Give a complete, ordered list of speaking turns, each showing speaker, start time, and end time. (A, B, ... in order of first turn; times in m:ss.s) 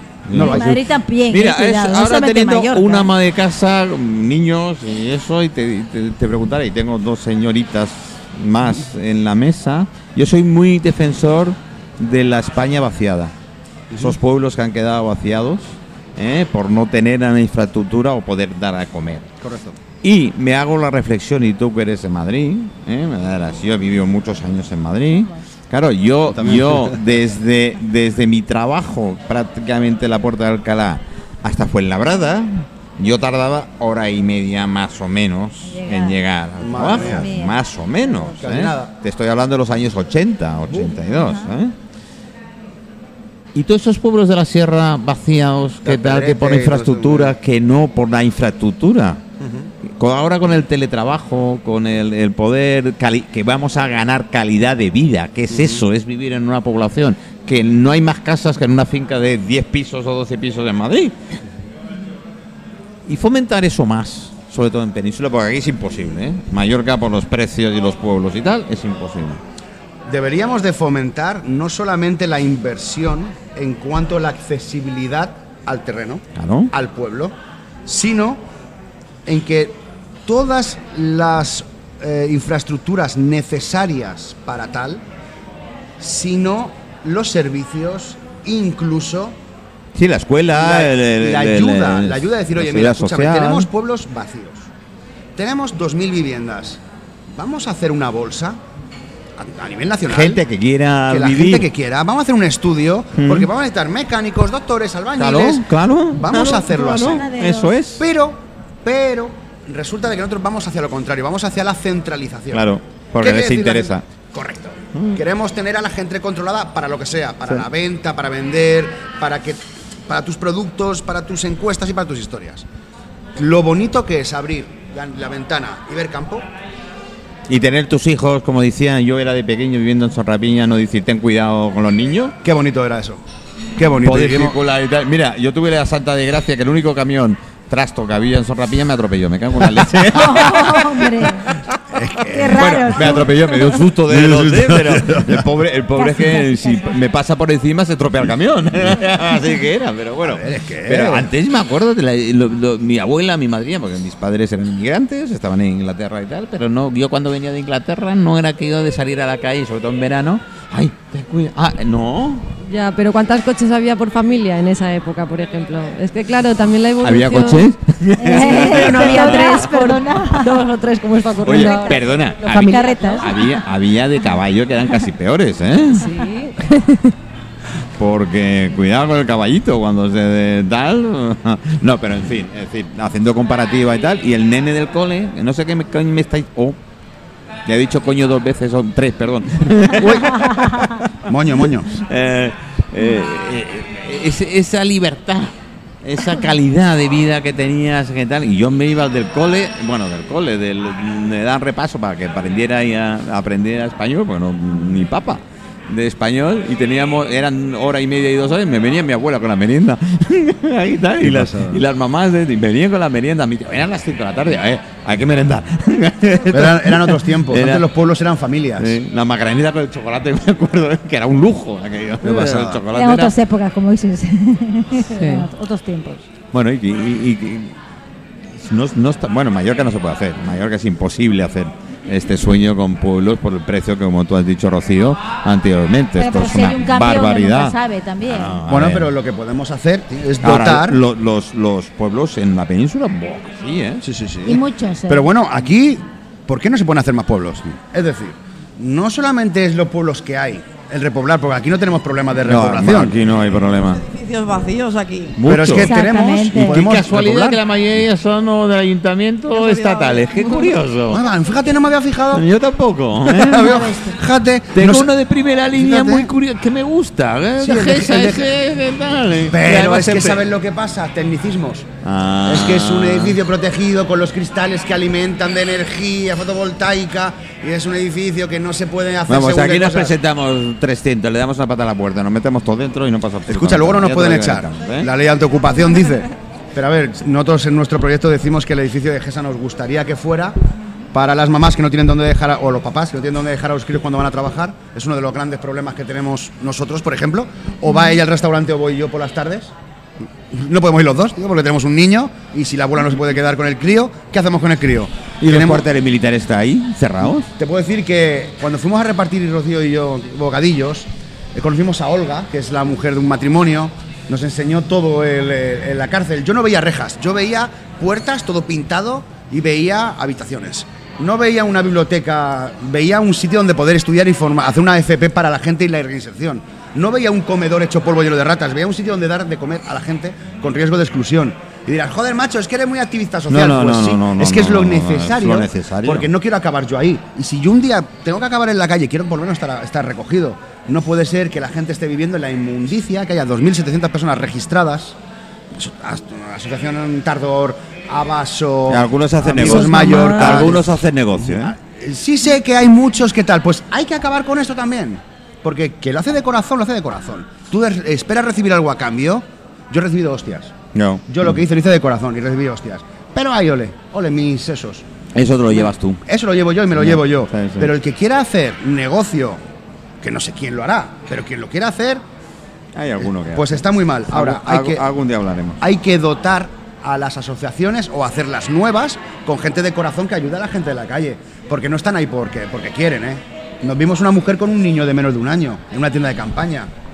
0:00.3-0:13.3 A
0:00.3-0:00.8 B
0:00.4-0:03.1 C
0:13.9-0:14.2 B
0:14.0-0:19.3 A
0:19.4-0:19.8 B
0:20.0-0:41.7 A
0:26.4-0:27.1 B
0:35.7-0:36.2 C
0:36.6-0:37.3 B
0:36.8-0:38.3 C
0:38.4-0:38.9 B
0:40.7-0:41.0 B
0:43.6-0:49.2 A
0:45.8-0:47.4 B
0:49.4-0:49.7 B
0:49.8-1:01.2 A
0:55.5-0:55.8 B
1:03.1-1:09.4 A
1:10.1-1:17.3 B
1:16.4-1:16.7 A
1:17.9-1:18.4 B
1:19.3-1:25.0 B
1:26.0-1:29.4 B
1:29.9-1:33.7 A
1:30.5-1:34.7 B
1:35.4-1:36.8 B
1:37.3-1:38.6 B
1:39.4-1:40.4 B
1:40.1-1:41.7 A
1:41.1-1:47.3 B
1:43.2-1:43.5 A
1:45.2-1:48.0 A
1:46.9-1:47.7 C
1:48.0-1:52.7 B
1:52.5-1:54.0 A
1:53.2-2:02.6 B
1:54.9-1:55.2 A
2:03.4-2:06.5 B
2:07.5-2:12.4 A
2:12.4-2:13.2 B
2:13.8-2:14.6 B
2:14.0-2:21.8 A
2:20.1-2:21.5 C
2:21.9-2:23.3 B
2:22.3-2:23.3 C
2:22.5-2:42.5 A
2:24.1-2:25.4 B
2:26.0-2:27.0 C
2:30.2-2:31.3 B
2:42.7-2:47.7 D
2:47.0-2:49.7 A
2:48.2-2:50.7 C
2:48.3-2:53.3 D
2:51.4-2:53.3 C
2:51.4-2:56.1 A
2:56.0-2:57.1 D
2:58.0-3:06.8 A
3:07.7-3:11.1 A
3:10.0-3:10.5 B
3:11.3-3:12.0 B
3:11.6-3:37.9 A
3:31.2-3:31.8 B
3:36.5-3:39.0 B
3:38.8-3:43.3 A
3:42.2-3:42.8 B
3:42.9-3:46.2 C
3:45.1-3:45.5 D
3:46.5-3:47.8 A
3:48.5-3:59.1 A
3:56.2-3:58.6 C
3:58.7-4:01.0 B
4:00.4-4:04.0 A
4:04.0-4:13.2 B
4:04.5-4:05.3 C
4:12.4-4:14.0 A
4:14.0-4:15.4 E
4:15.4-4:16.0 A
4:15.5-4:17.6 B
4:15.7-4:16.8 C
4:16.5-4:21.2 A
4:19.5-4:20.7 E
4:21.1-4:22.4 B
4:22.3-4:23.8 A
4:23.3-4:25.1 B
4:23.6-4:24.2 C
4:24.7-4:30.4 A
4:25.7-4:26.3 B
4:27.6-4:28.5 B
4:29.5-4:31.9 B
4:32.0-4:33.4 A
4:32.4-4:40.2 B
4:39.3-4:45.1 A
4:43.5-4:50.6 B
4:51.1-4:59.7 B
5:00.5-5:05.9 B
5:05.4-5:07.5 A
5:07.6-5:45.2 B
5:33.5-5:36.3 A
5:45.7-5:50.9 B
5:48.9-5:51.7 A
5:51.4-6:00.7 B
6:00.9-6:01.2 A
6:01.3-6:05.0 B
6:05.3-6:06.2 A
6:06.2-6:09.6 B
6:06.9-6:07.9 A
6:10.2-6:12.2 B
6:12.9-6:15.8 A
6:13.2-6:15.0 B
6:15.8-6:26.9 B